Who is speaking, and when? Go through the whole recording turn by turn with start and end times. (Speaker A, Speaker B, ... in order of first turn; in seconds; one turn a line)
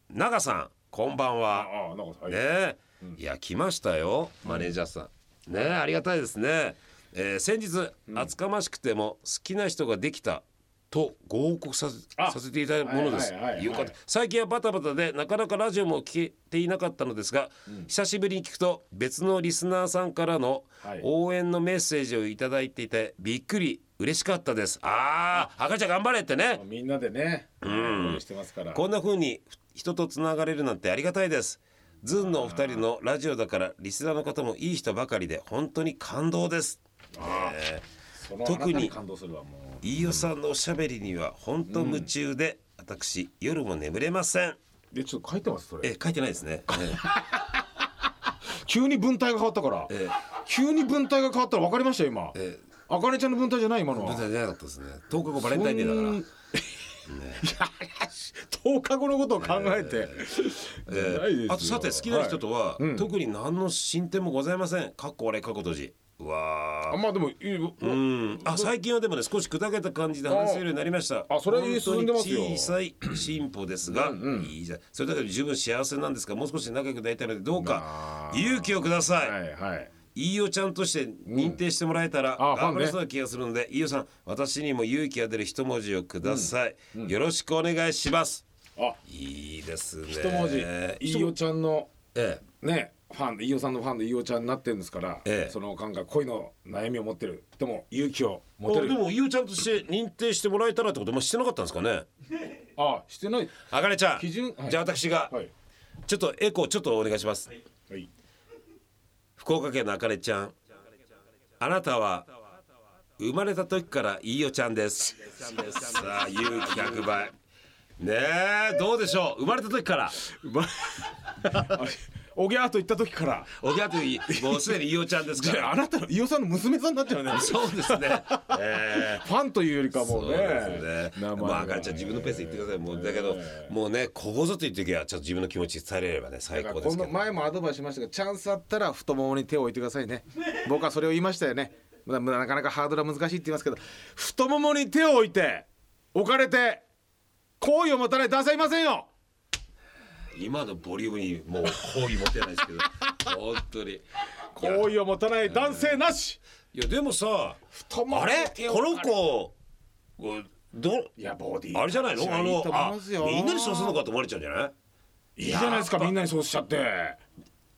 Speaker A: 0.1-1.7
Speaker B: 1.5-2.4
Speaker A: 2.3-26.6
Speaker B: 4.4-4.7
Speaker B: 8.1-8.3
Speaker B: 12.2-13.9
Speaker B: 20.8-21.1
Speaker B: 26.6-28.8
Speaker A: 27.6-37.9
Speaker B: 32.2-32.9
Speaker B: 37.2-37.6
Speaker B: 38.2-39.9
Speaker A: 38.4-39.0
Speaker A: 39.8-44.6
Speaker B: 41.7-42.1
Speaker B: 44.9-45.9
Speaker A: 45.8-47.0
Speaker B: 46.9-47.6
Speaker B: 48.6-52.4
Speaker A: 49.9-50.2
Speaker A: 52.4-52.6
Speaker B: 52.9-54.2
Speaker A: 53.9-56.2
Speaker B: 55.3-63.1
Speaker A: 57.1-57.4
Speaker A: 59.4-60.3
Speaker A: 60.9-67.0
Speaker B: 66.9-68.7
Speaker A: 67.8-79.4
Speaker B: 70.3-70.7
Speaker B: 71.3-72.8
Speaker B: 73.9-74.5
Speaker B: 77.5-79.9
Speaker A: 80.2-88.4
Speaker B: 81.3-81.6
Speaker B: 82.4-83.0
Speaker B: 86.2-87.1
Speaker A: 89.1-91.4
Speaker B: 90.1-91.9
Speaker A: 92.2-92.4
Speaker B: 92.6-99.0
Speaker A: 95.3-95.5
Speaker A: 98.7-102.1
Speaker B: 102.8-103.6
Speaker A: 103.7-105.3
Speaker B: 104.2-104.8
Speaker A: 106.1-107.5
Speaker A: 109.4-110.5
Speaker A: 111.6-112.3
Speaker A: 113.2-117.3
Speaker B: 115.4-115.9
Speaker A: 118.0-120.2
Speaker B: 120.3-123.5
Speaker A: 121.5-121.8
Speaker A: 123.6-125.7
Speaker B: 124.3-133.7
Speaker A: 127.3-129.3
Speaker A: 129.9-137.3
Speaker B: 136.5-146.8
Speaker B: 147.6-149.1
Speaker A: 150.3-154.1
Speaker B: 153.0-153.3
Speaker B: 154.5-156.4
Speaker A: 154.6-156.0
Speaker A: 156.7-159.6
Speaker B: 157.7-159.1
Speaker A: 160.2-161.1
Speaker B: 161.2-164.0
Speaker A: 161.7-164.7
Speaker B: 165.4-167.2
Speaker A: 165.5-166.1